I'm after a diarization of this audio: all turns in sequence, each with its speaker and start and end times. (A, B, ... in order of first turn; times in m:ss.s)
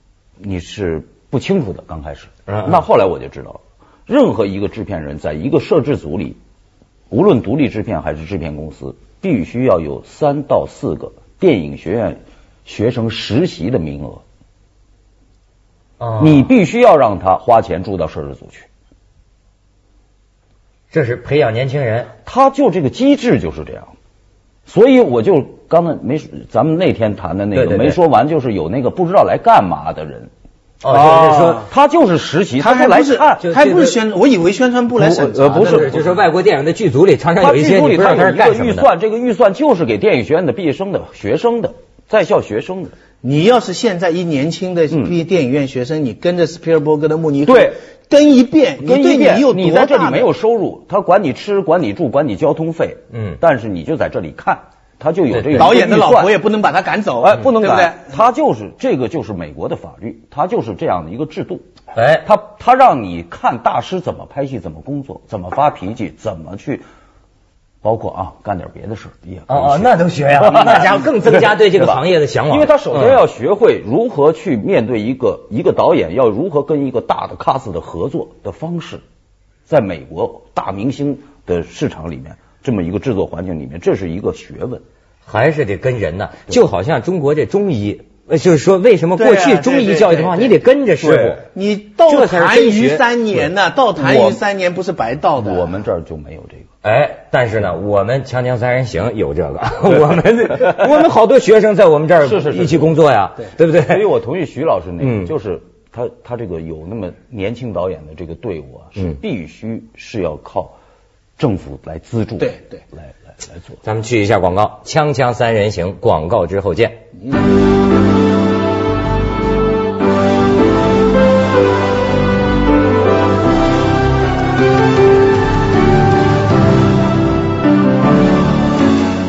0:00.4-0:06.4 A
0:02.5-0:02.8 B
0:07.1-0:14.2 A
0:16.0-0:16.5 B
0:16.2-0:18.7 A
0:20.9-0:22.1 B
0:22.2-0:23.9 A
0:24.7-0:30.3 A
0:27.6-0:28.0 B
0:30.8-0:31.7 B
0:30.9-0:33.5 A
0:32.6-0:36.1 C
0:33.4-0:34.0 B
0:35.0-0:36.1 A
0:35.3-0:38.9 B
0:37.4-0:43.0 A
0:43.2-0:50.3 C
0:47.5-0:47.8 A
0:48.8-0:56.4 A
0:53.1-0:53.4 B
0:55.3-0:55.7 B
0:55.6-0:58.1 C
0:57.2-1:01.7 A
1:02.0-1:02.3 B
1:02.2-1:06.8 A
1:07.8-1:19.0 A
1:09.5-1:13.2 B
1:19.7-1:24.8 A
1:25.3-1:31.4 B
1:29.2-1:30.6 C
1:31.0-1:31.4 A
1:31.5-1:35.8 C
1:32.1-1:33.0 B
1:34.0-1:34.4 A
1:35.4-1:36.7 A
1:36.8-1:44.1 B
1:42.2-1:43.0 A
1:43.8-1:50.8 A
1:45.0-1:45.3 B
1:51.4-1:53.1 A
1:52.4-1:52.8 C
1:53.8-1:57.0 B